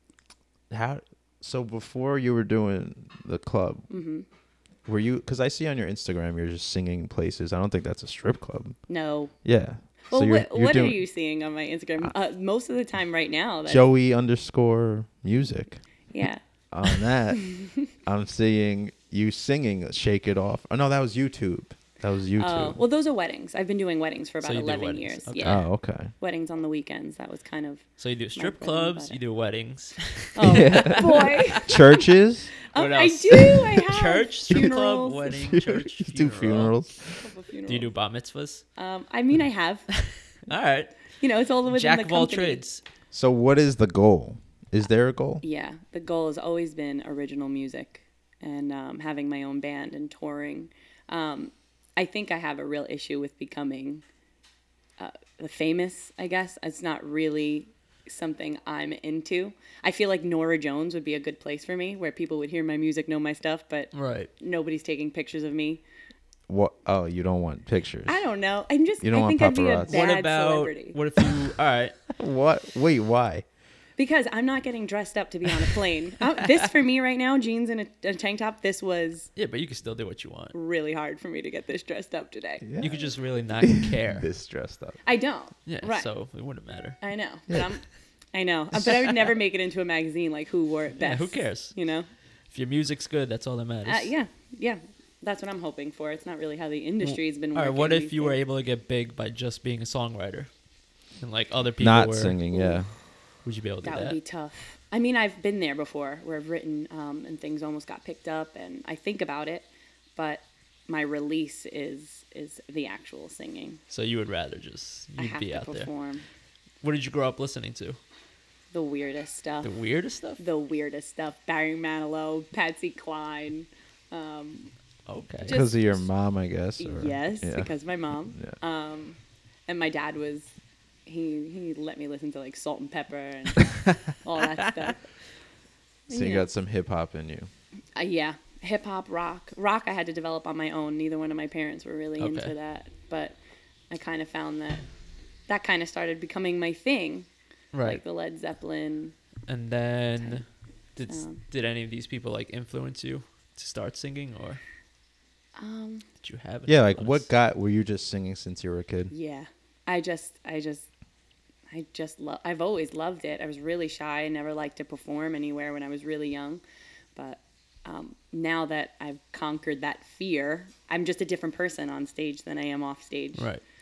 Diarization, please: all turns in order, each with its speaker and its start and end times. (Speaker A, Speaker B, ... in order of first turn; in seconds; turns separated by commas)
Speaker A: 0.7-3.9, Speaker B: 3.9-4.2, Speaker A: 4.8-8.8, Speaker B: 8.9-9.3, Speaker A: 9.4-11.0, Speaker B: 10.1-13.8, Speaker A: 13.7-15.8, Speaker B: 16.1-17.8, Speaker A: 16.7-22.8, Speaker B: 22.4-25.6, Speaker C: 24.4-25.6, Speaker A: 25.4-26.1, Speaker B: 26.2-29.2, Speaker C: 28.0-31.6, Speaker B: 30.3-32.1, Speaker A: 30.4-32.5, Speaker B: 32.7-35.4, Speaker C: 32.7-36.7, Speaker A: 35.3-37.2, Speaker B: 37.2-37.9, Speaker C: 37.7-38.6, Speaker B: 38.8-39.9, Speaker C: 40.1-40.9, Speaker B: 41.2-42.6, Speaker C: 41.7-42.8, Speaker A: 43.1-45.4, Speaker B: 45.4-54.0, Speaker B: 55.0-65.8, Speaker C: 63.9-64.3, Speaker A: 66.5-68.2, Speaker B: 68.1-71.0, Speaker A: 69.0-70.0, Speaker C: 69.9-71.9, Speaker A: 72.2-73.4, Speaker B: 74.0-79.3, Speaker C: 79.3-80.5, Speaker B: 80.5-82.7, Speaker A: 82.6-83.0, Speaker C: 82.8-84.3, Speaker A: 83.6-85.0, Speaker B: 85.0-86.1, Speaker C: 85.7-87.0, Speaker B: 87.0-92.1, Speaker C: 91.0-91.7, Speaker C: 92.5-94.1, Speaker B: 93.8-98.4, Speaker C: 97.0-100.5, Speaker C: 101.2-102.4, Speaker A: 101.8-102.9, Speaker B: 102.5-102.8, Speaker C: 103.4-104.2, Speaker B: 103.8-113.8, Speaker C: 113.9-115.9, Speaker B: 115.2-116.2, Speaker C: 116.8-118.0, Speaker B: 118.7-119.7, Speaker C: 119.6-120.4, Speaker B: 120.4-124.7, Speaker C: 125.1-125.6, Speaker B: 125.4-126.1, Speaker A: 125.5-127.7, Speaker B: 126.8-130.5, Speaker B: 131.1-135.0, Speaker B: 136.1-136.5, Speaker A: 136.1-137.5, Speaker B: 137.9-143.4, Speaker C: 142.2-142.5, Speaker B: 143.9-144.8, Speaker B: 145.5-147.3, Speaker C: 147.7-148.0, Speaker B: 147.8-149.1, Speaker C: 149.5-150.4, Speaker C: 150.9-154.6, Speaker B: 151.1-151.4, Speaker B: 155.6-156.0, Speaker C: 156.2-157.3, Speaker A: 156.7-159.1, Speaker B: 159.1-160.9, Speaker B: 161.7-166.6, Speaker B: 167.2-173.5, Speaker C: 173.3-173.6